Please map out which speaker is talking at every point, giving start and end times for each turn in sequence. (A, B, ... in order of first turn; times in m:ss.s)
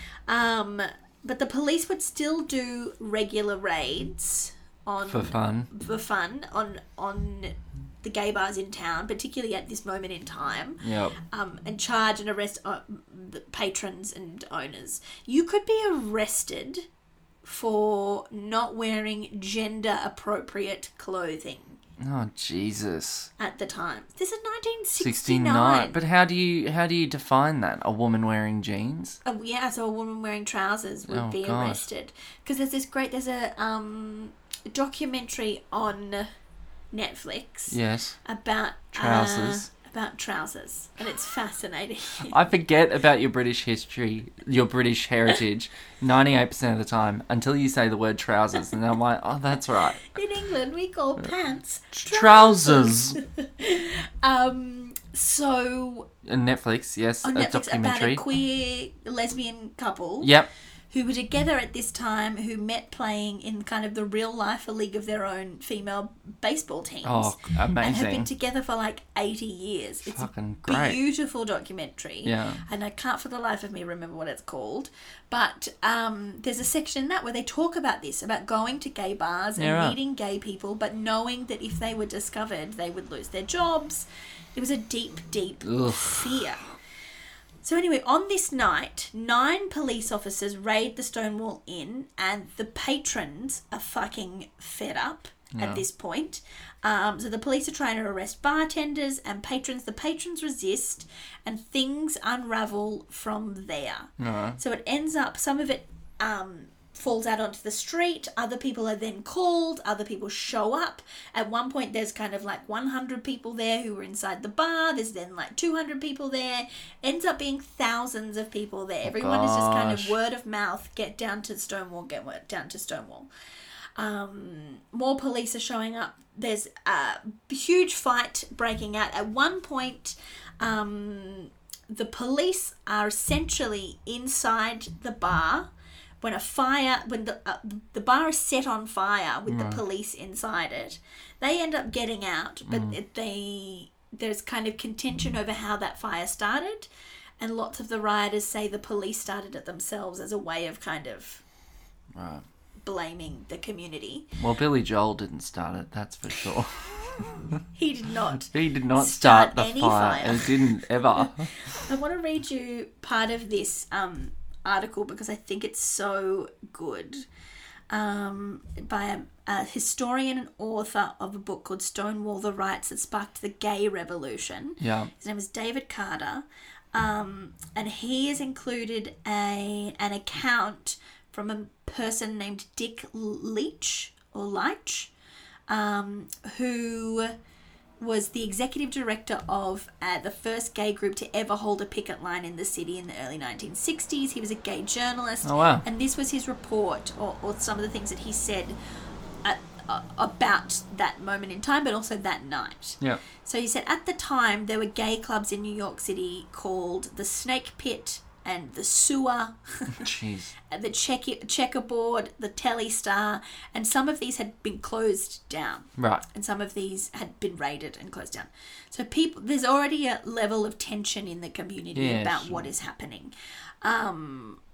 0:00.3-0:16.9 A
0:05.1-0:05.7 B
0:10.8-0:11.2 B
0:17.4-0:21.8 A
0:22.0-0:23.3 B
0:23.4-0:26.0 A
0:25.0-0:29.2 B
0:29.2-0:36.3 A
0:31.1-0:31.9 B
0:36.9-0:42.4 A
0:37.7-0:38.2 B
0:39.0-0:39.7 B
0:42.2-0:50.1 B
0:50.1-0:56.1 A
0:51.9-0:53.2 B
0:56.2-0:58.2 B
0:57.2-1:00.3 A
1:00.2-1:00.5 B
1:00.9-1:26.6 A
1:07.0-1:08.3 B
1:10.0-1:11.0 B
1:12.2-1:12.6 B
1:19.6-1:20.0 B
1:25.6-1:26.7 B
1:27.6-2:03.3 A
1:35.5-1:35.8 B
1:44.2-1:44.6 B
1:59.0-2:00.2 B
2:04.0-2:15.7 A
2:16.2-2:26.9 A
2:19.5-2:19.8 B
2:22.7-2:23.0 B
2:27.4-2:31.4 A
2:32.1-2:32.4 B
2:32.8-2:34.3 A
2:34.4-2:37.6 B
2:37.7-2:40.6 A
2:38.4-2:41.5 B
2:41.2-2:47.3 A
2:47.9-3:05.1 A
2:54.8-2:55.1 B
3:05.7-3:07.4 A
3:08.0-3:18.8 A
3:15.4-3:15.8 B
3:19.4-3:30.1 A
3:30.0-3:30.5 B
3:30.7-3:44.6 A
3:36.0-3:36.2 B
3:42.0-3:42.7 B